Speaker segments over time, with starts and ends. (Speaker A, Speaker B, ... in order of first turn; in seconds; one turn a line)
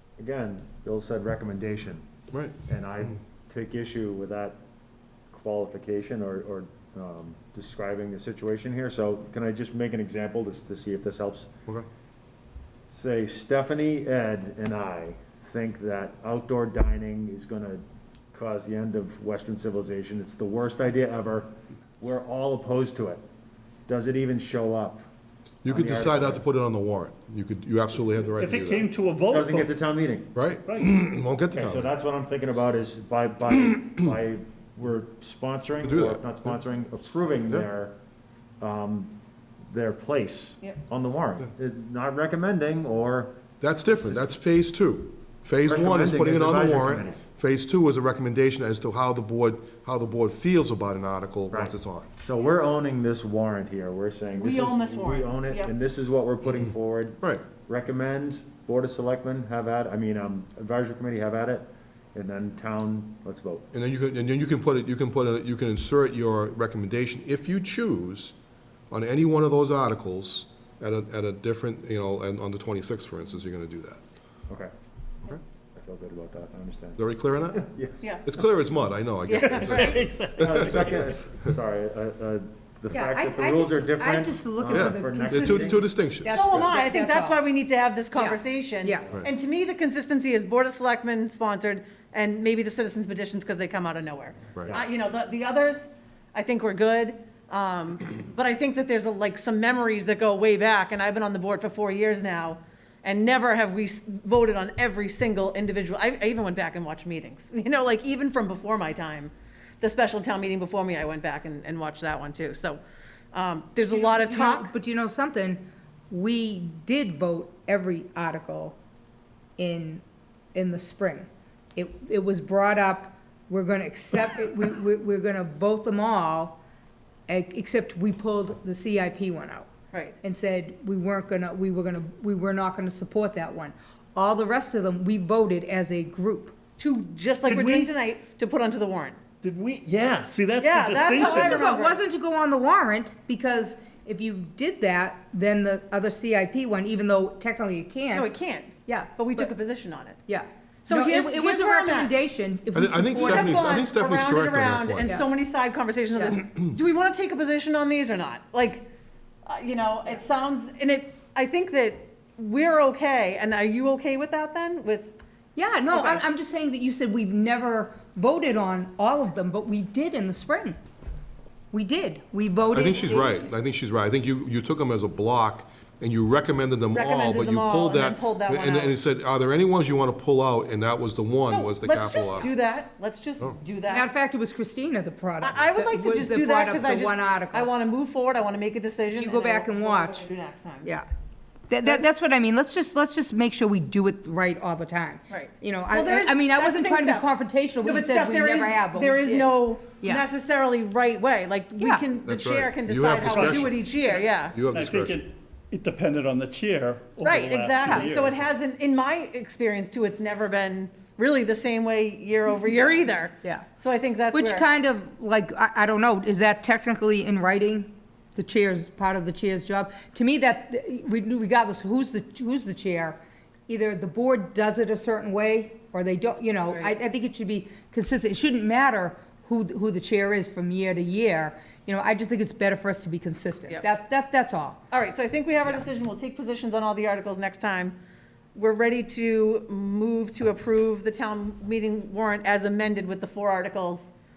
Speaker A: 0.2-2.0
Speaker A: 2.6-4.6
Speaker A: 5.3-11.5
Speaker A: 12.9-17.8
Speaker A: 18.3-23.2
Speaker A: 23.9-25.0
Speaker B: 25.6-28.9
Speaker A: 25.6-26.4
Speaker C: 28.4-29.8
Speaker A: 29.3-30.3
Speaker B: 30.3-31.9
Speaker C: 30.6-30.9
Speaker A: 31.5-37.9
Speaker B: 35.8-36.2
Speaker A: 38.6-39.1
Speaker A: 39.7-43.3
Speaker B: 43.6-52.1
Speaker A: 45.6-47.2
Speaker A: 51.5-63.6
Speaker D: 54.3-55.7
Speaker B: 57.2-57.5
Speaker B: 63.7-68.3
Speaker B: 68.9-74.0
Speaker A: 75.7-77.0
Speaker B: 77.0-77.7
Speaker A: 77.6-78.2
Speaker D: 78.0-78.3
Speaker B: 78.2-81.0
Speaker D: 79.2-80.1
Speaker C: 79.5-81.1
Speaker A: 80.4-85.9
Speaker E: 82.9-87.4
Speaker B: 84.7-86.7
Speaker D: 86.2-112.8
Speaker E: 88.1-89.1
Speaker D: 113.3-114.7
Speaker E: 113.9-118.8
Speaker E: 119.6-120.0
Speaker E: 120.5-126.6
Speaker E: 127.3-129.7
Speaker E: 130.2-136.6
Speaker D: 136.8-139.2
Speaker C: 137.4-137.9
Speaker C: 139.4-141.7
Speaker D: 140.6-142.0
Speaker E: 141.1-148.3
Speaker D: 148.1-150.2
Speaker E: 148.8-149.5
Speaker E: 150.3-153.8
Speaker D: 150.8-152.2
Speaker B: 152.7-155.1
Speaker D: 153.1-158.8
Speaker D: 159.4-165.1
Speaker E: 165.5-170.8
Speaker D: 165.9-166.2
Speaker E: 171.7-173.3
Speaker B: 172.7-182.5
Speaker D: 172.8-173.3
Speaker D: 176.9-179.0
Speaker D: 181.5-184.1
Speaker E: 183.9-187.7
Speaker D: 185.4-190.9
Speaker E: 189.1-190.3
Speaker E: 191.7-200.2
Speaker D: 195.3-197.3
Speaker D: 197.8-204.6
Speaker E: 201.8-202.1
Speaker B: 202.3-205.2
Speaker C: 203.2-203.6
Speaker C: 204.7-208.5
Speaker D: 207.2-214.6
Speaker E: 207.8-208.1
Speaker E: 214.3-234.8
Speaker D: 234.9-237.9
Speaker D: 238.5-244.1